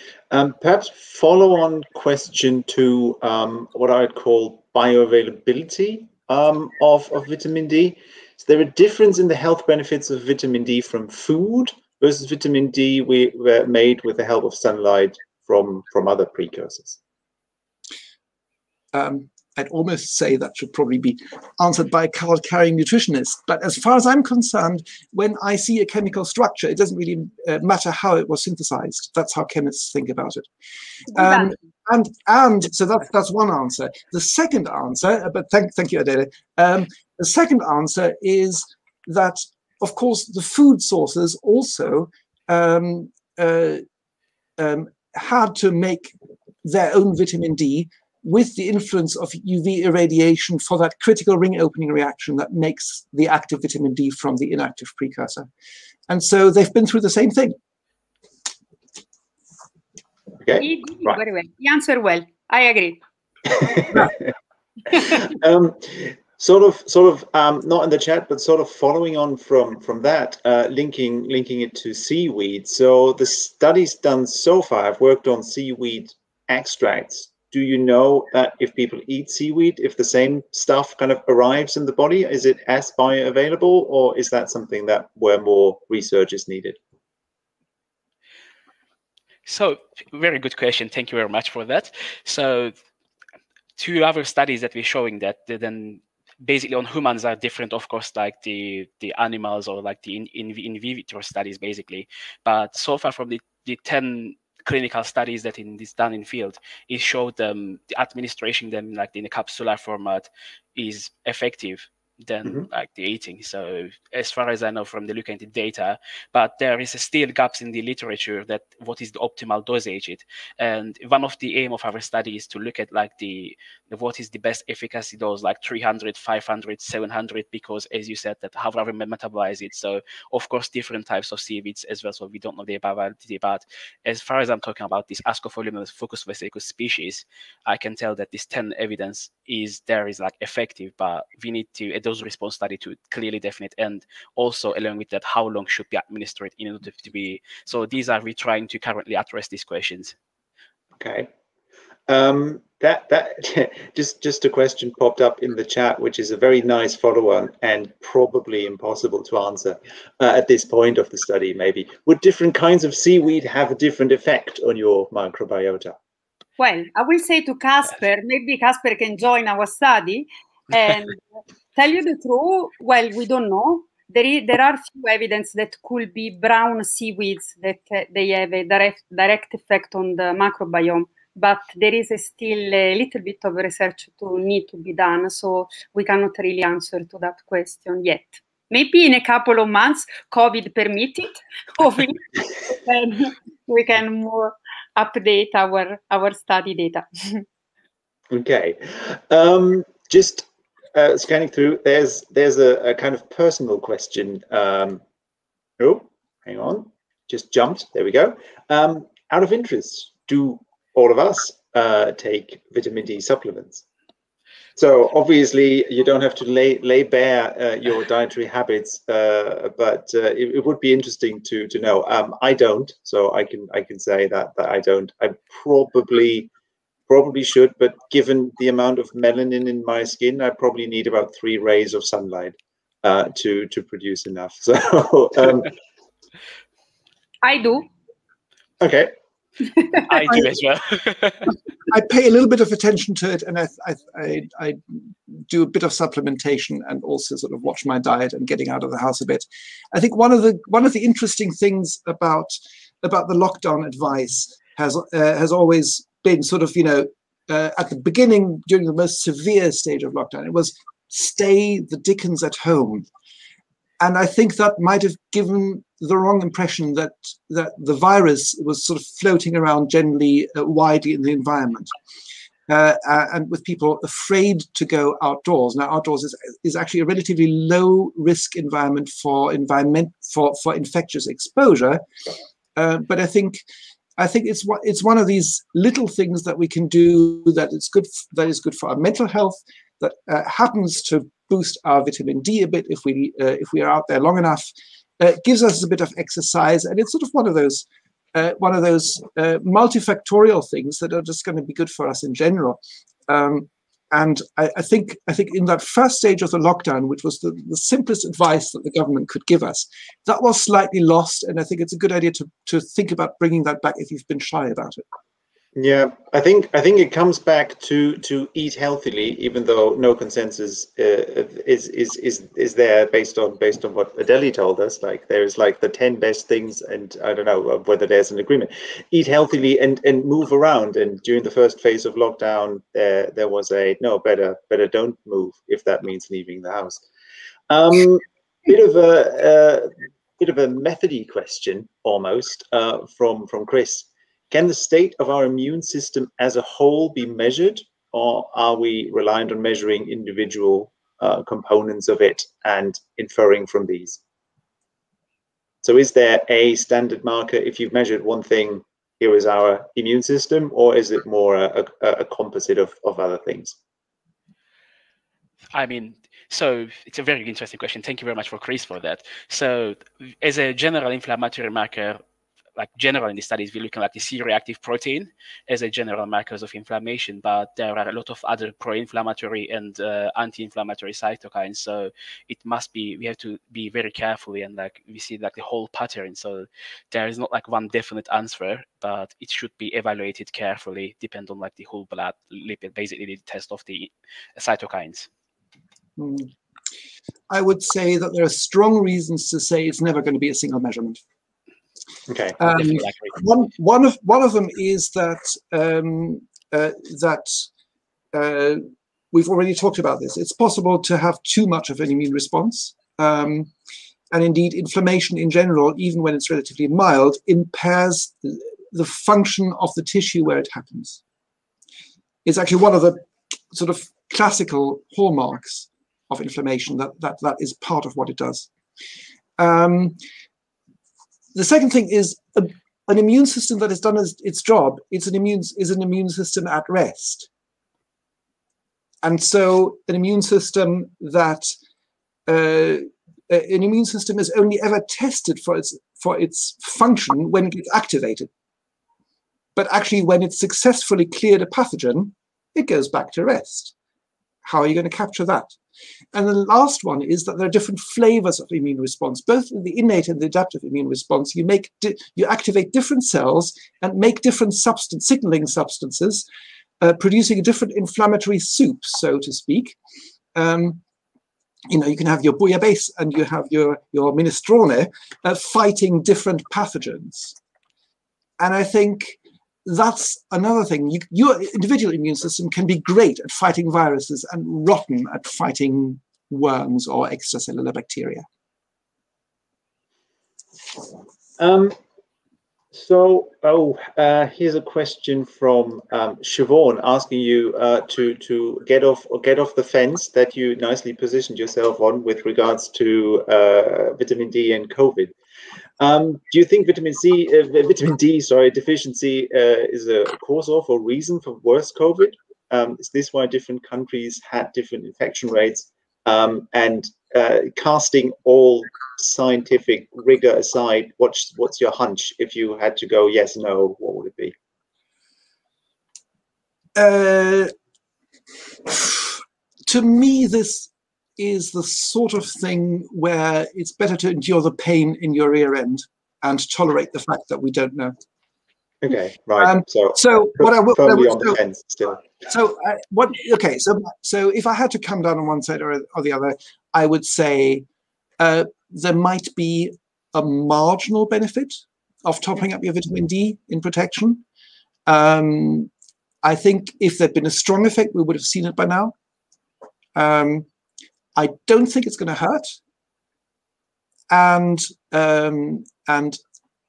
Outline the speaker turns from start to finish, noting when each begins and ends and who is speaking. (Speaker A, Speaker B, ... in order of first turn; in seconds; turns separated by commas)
Speaker A: 0.3-17.0, Speaker B: 18.9-30.5, Speaker B: 31.1-43.8, Speaker C: 31.1-31.5, Speaker B: 44.6-55.5, Speaker B: 56.1-57.5, Speaker A: 60.4-61.2, Speaker C: 60.6-63.0, Speaker A: 63.6-64.1, Speaker A: 64.9-86.8, Speaker D: 89.4-92.7, Speaker D: 93.8-150.1, Speaker A: 150.9-151.3, Speaker A: 152.1-166.0, Speaker C: 166.6-171.2, Speaker C: 171.7-197.4, Speaker A: 198.3-205.0, Speaker A: 205.8-213.8, Speaker A: 214.8-226.5, Speaker A: 227.1-235.7, Speaker C: 237.4-237.9, Speaker A: 238.8-239.1, Speaker D: 240.1-241.5, Speaker B: 240.2-240.5, Speaker B: 241.9-263.1, Speaker B: 264.0-271.9, Speaker B: 272.7-282.0, Speaker B: 282.8-283.6, Speaker B: 284.2-315.0, Speaker A: 315.8-337.0, Speaker A: 337.7-354.2, Speaker A: 355.8-363.8, Speaker D: 365.7-372.2, Speaker D: 372.8-395.3, Speaker B: 396.2-396.5, Speaker B: 397.5-401.2, Speaker A: 402.3-402.6, Speaker B: 402.6-407.7, Speaker B: 408.3-413.7, Speaker B: 414.3-421.2, Speaker B: 422.4-428.7, Speaker B: 429.6-430.2, Speaker B: 431.5-437.5, Speaker B: 439.2-441.7, Speaker B: 442.5-448.5, Speaker B: 449.8-453.9, Speaker B: 454.6-455.8, Speaker B: 456.3-466.4, Speaker B: 467.0-470.0, Speaker B: 470.5-471.0, Speaker B: 471.9-477.6, Speaker B: 478.6-488.4, Speaker A: 491.6-491.9, Speaker A: 492.9-505.3, Speaker A: 506.0-524.5, Speaker B: 527.0-527.7, Speaker B: 528.8-538.1, Speaker A: 539.0-542.2, Speaker B: 539.6-541.6, Speaker B: 542.5-547.9, Speaker B: 548.4-554.4, Speaker B: 555.1-555.9, Speaker B: 556.4-559.1, Speaker B: 560.1-560.7, Speaker B: 561.4-562.8, Speaker B: 564.3-566.4